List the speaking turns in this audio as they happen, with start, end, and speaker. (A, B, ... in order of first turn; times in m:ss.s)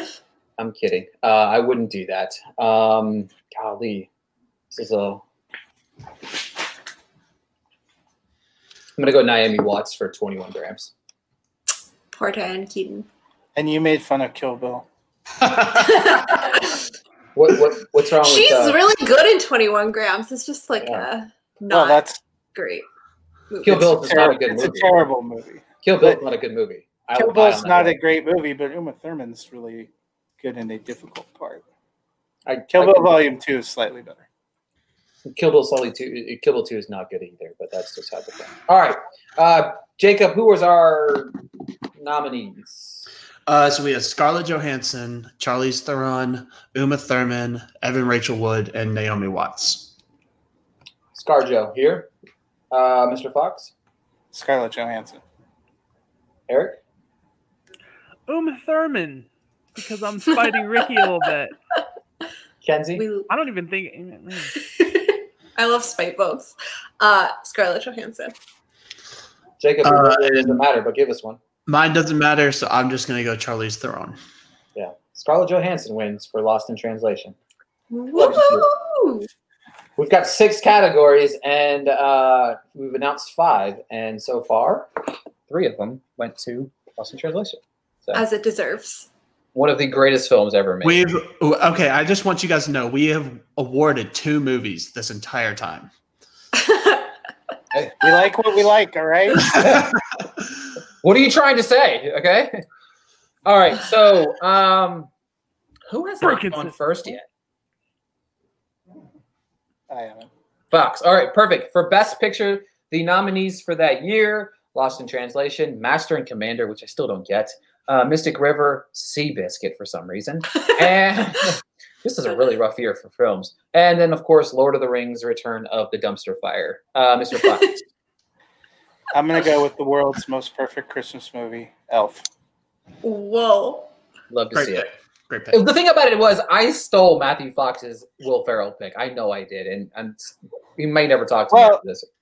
0:00.6-0:04.1 A
0:04.7-0:05.2 A
0:09.0-0:10.9 A
0:12.1-0:13.1 B
0:13.6-0:14.9 C
0:15.4-0:15.9 D
0:15.8-0:16.8 B
0:17.4-0:18.8 A
0:18.2-0:22.9 B
0:20.8-0:21.1 A
0:21.7-0:22.2 C
0:23.5-0:24.0 B
0:23.6-0:25.0 A
0:23.7-0:26.2 C
0:25.8-0:28.0 A
0:27.2-0:31.6 C
0:32.5-0:33.2 A
0:32.7-0:34.3 C
0:35.3-0:41.3 A
0:42.0-0:43.1 A
0:43.5-0:49.9 D
0:51.1-0:52.1 A
0:52.7-0:53.7 A
0:54.3-0:55.2 C
0:56.5-0:56.8 A
0:58.3-1:01.5 E
1:02.6-1:03.0 A
1:03.0-1:03.3 B
1:03.3-1:04.6 E
1:04.6-1:08.3 B
1:09.6-1:11.4 A
1:09.8-1:10.6 D
1:11.7-1:14.2 D
1:14.8-1:17.4 A
1:17.9-1:19.3 B
1:18.2-1:18.7 A
1:20.0-1:24.9 A
1:25.5-1:28.2 A
1:28.1-1:29.1 B
1:29.6-1:31.0 A
1:30.8-1:35.9 D
1:36.6-1:37.1 B
1:37.9-1:39.6 C
1:39.4-1:39.9 D
1:39.5-1:39.9 A
1:41.0-1:42.6 A
1:43.4-1:45.1 A
1:45.9-1:47.3 A
1:46.2-1:46.8 E
1:49.9-1:50.3 C
1:50.7-2:07.8 A
2:09.1-2:12.2 C
2:13.0-2:13.9 B
2:14.3-2:14.9 A
2:14.5-2:15.6 D
2:15.5-2:22.1 A
2:21.5-2:21.8 C